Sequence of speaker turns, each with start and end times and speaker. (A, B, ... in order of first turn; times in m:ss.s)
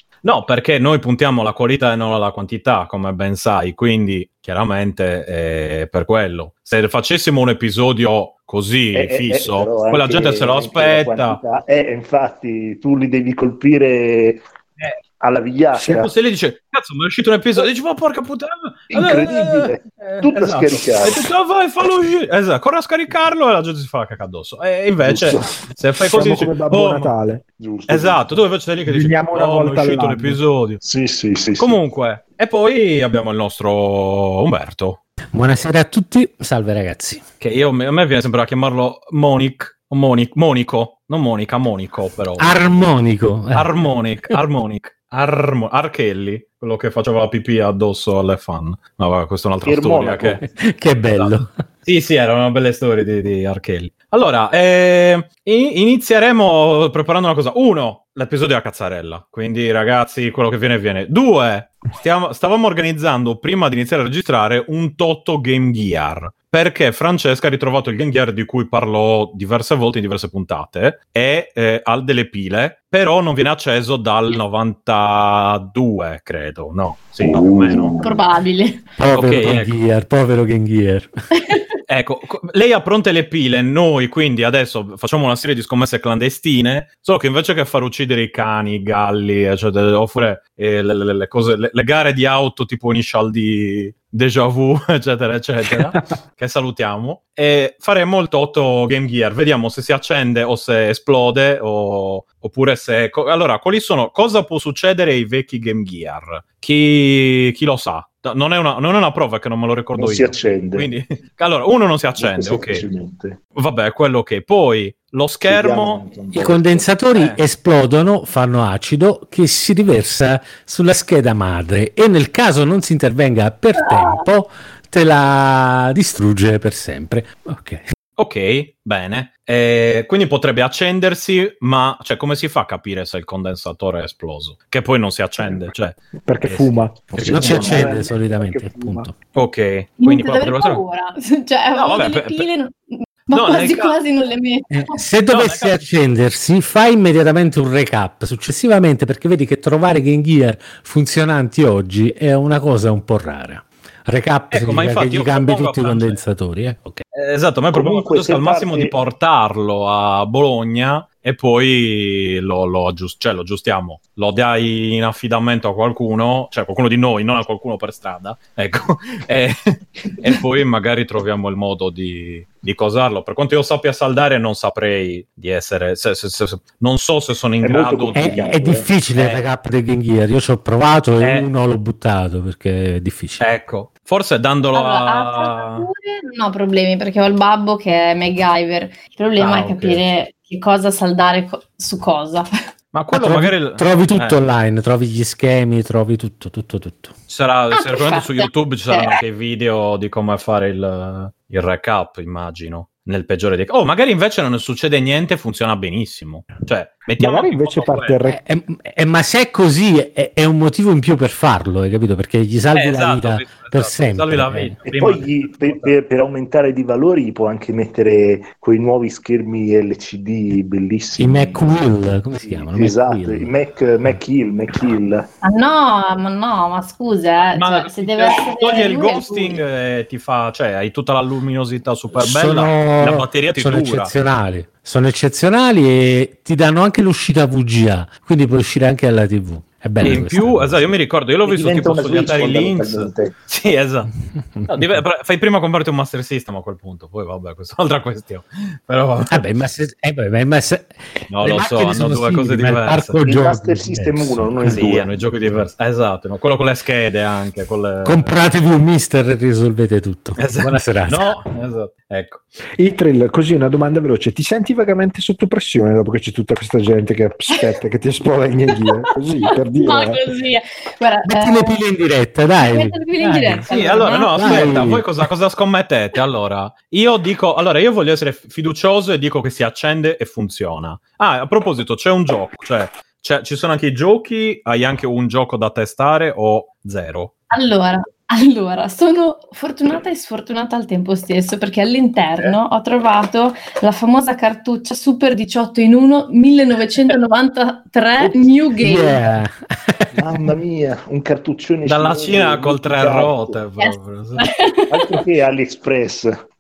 0:00.2-0:11.4 A
0:08.9-0:14.4 B
0:15.2-0:16.1 B
0:15.7-0:16.1 C
0:15.9-0:27.1 A
0:18.9-0:21.3 B
0:25.0-0:25.5 B
0:26.1-0:27.4 C
0:27.6-0:28.3 B
0:27.9-0:30.8 A
0:28.9-0:30.4 C
0:30.8-0:31.8 B
0:31.6-0:35.0 A
0:35.3-0:37.2 D
0:37.4-0:42.5 A
0:42.4-0:43.8 D
0:43.6-0:50.4 A
0:49.6-0:50.4 B
0:50.4-0:51.6 D
0:51.1-1:18.0 A
1:17.2-1:18.1 B
1:18.0-1:18.9 E
1:19.0-1:21.1 D
1:19.1-1:19.7 A
1:21.9-1:52.8 A
1:50.0-1:50.9 B
1:52.2-1:53.4 B
1:53.6-1:56.0 A
1:55.5-1:56.9 B
1:56.3-2:07.8 D
1:57.1-1:57.4 A
2:03.8-2:04.2 E
2:08.2-2:17.0 A
2:16.2-2:19.1 C
2:17.2-2:19.1 D
2:17.2-2:18.0 B
2:19.3-2:20.8 A
2:20.0-2:25.0 E
2:21.8-2:22.5 A
2:23.3-2:24.0 A
2:24.7-2:37.0 D
2:25.3-2:25.8 A
2:34.5-2:36.2 A
2:37.1-2:58.4 A
2:37.7-2:38.9 B
2:57.6-2:58.9 B
2:58.2-3:03.5 D
2:59.2-2:59.4 A
3:01.2-3:01.5 A
3:03.4-3:05.9 A
3:04.7-3:12.5 E
3:09.4-3:10.0 A
3:12.9-3:14.4 A
3:13.1-3:17.1 D
3:17.3-3:28.2 A
3:17.7-3:19.2 E
3:27.2-3:28.4 C
3:28.3-3:34.8 D
3:32.7-3:35.9 A
3:34.9-3:41.8 B
3:41.2-3:43.5 D
3:42.4-3:45.3 B
3:45.4-3:49.6 E
3:47.5-3:54.1 A
3:52.2-4:00.8 D
4:00.0-4:04.1 A
4:01.4-4:03.3 B
4:04.6-4:05.0 D
4:04.7-4:09.4 A
4:09.3-4:14.9 D
4:11.3-4:13.2 A
4:13.2-4:15.1 B
4:14.7-4:18.3 A
4:18.0-4:21.4 D
4:20.4-4:22.4 A
4:22.8-4:30.2 C
4:28.9-4:31.8 E
4:31.2-4:33.8 D
4:32.6-4:34.8 E
4:33.7-4:47.3 A
4:34.3-4:35.1 D
4:47.5-4:59.2 E
4:58.8-5:00.2 D
5:00.2-5:03.6 B
5:01.9-5:04.5 A
5:03.8-5:05.2 E
5:04.9-5:06.3 B